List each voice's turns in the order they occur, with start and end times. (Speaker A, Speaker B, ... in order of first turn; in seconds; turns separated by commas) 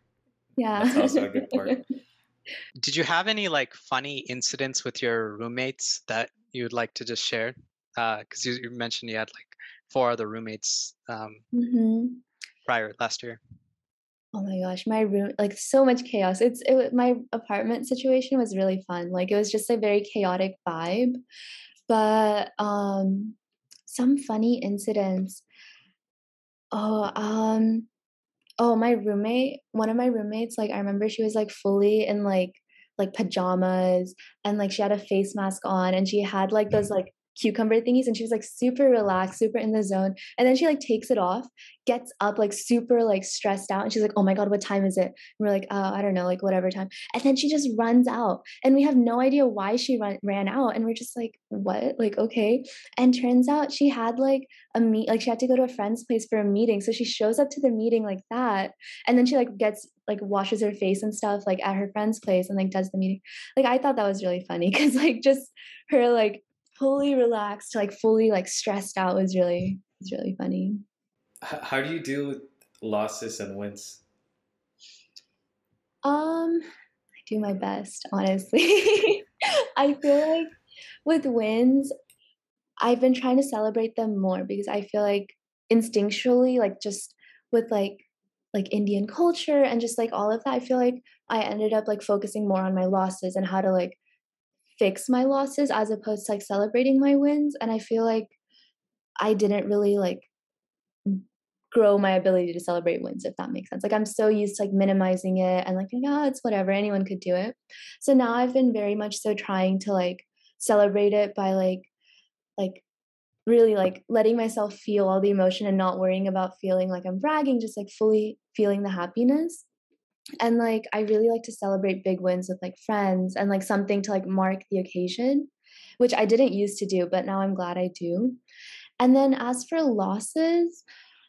Speaker A: 0.6-1.8, Speaker B: 0.8-1.8, Speaker C: 2.8-11.4, Speaker A: 11.5-12.2, Speaker C: 12.7-13.4, Speaker A: 14.3-21.2, Speaker A: 21.9-25.4, Speaker A: 26.7-27.9, Speaker A: 28.6-70.8, Speaker B: 71.4-74.0, Speaker A: 76.0-76.6, Speaker A: 77.2-81.9, Speaker A: 82.8-94.0, Speaker A: 94.8-98.3, Speaker A: 99.2-100.3, Speaker A: 101.1-111.9, Speaker A: 112.6-112.8, Speaker A: 113.5-119.7, Speaker A: 120.4-128.4, Speaker A: 129.0-130.8